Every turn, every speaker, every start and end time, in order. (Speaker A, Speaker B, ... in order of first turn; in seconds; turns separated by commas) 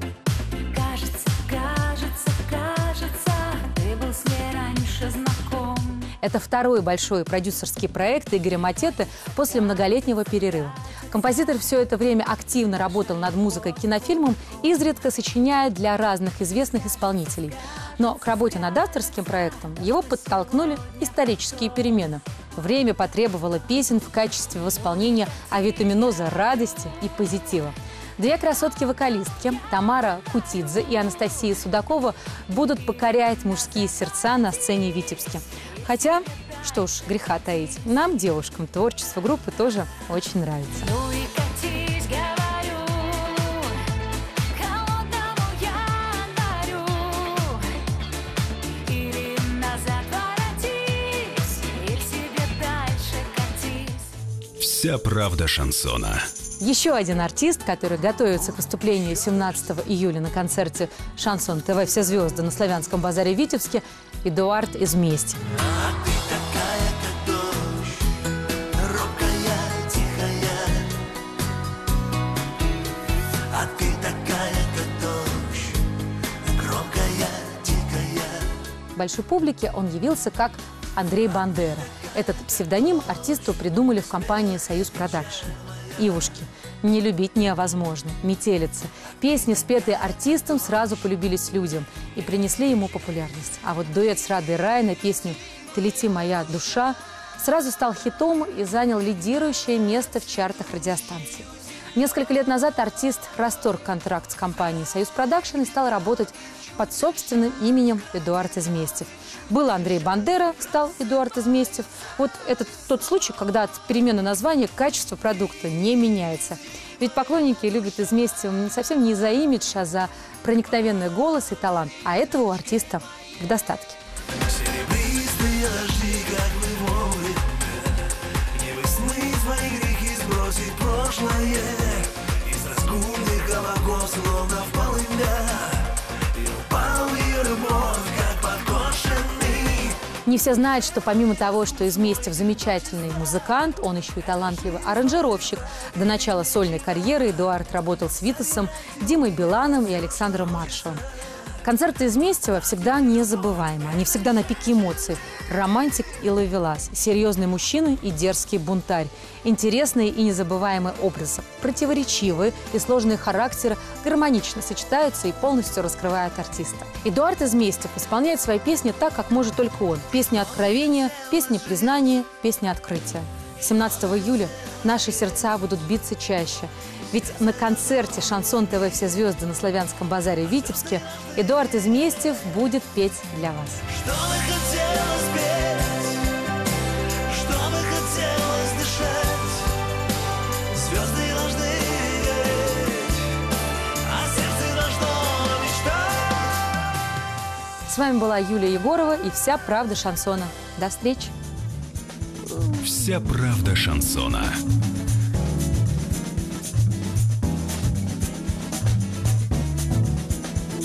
Speaker A: 0.7-6.1, Speaker B: 6.2-40.9, Speaker A: 40.9-43.9, Speaker A: 44.5-47.7, Speaker A: 48.8-54.1, Speaker C: 54.6-56.3, Speaker B: 56.6-65.4, Speaker D: 65.8-68.0, Speaker D: 68.8-70.9, Speaker D: 73.5-75.8, Speaker D: 76.5-78.5, Speaker B: 79.0-124.0, Speaker D: 124.5-127.8, Speaker D: 128.5-140.0, Speaker B: 140.2-151.0, Speaker B: 151.6-183.8, Speaker D: 184.0-186.2, Speaker D: 187.3-189.7, Speaker D: 190.7-193.3, Speaker D: 194.0-196.4, Speaker B: 197.9-201.3, Speaker C: 202.8-204.6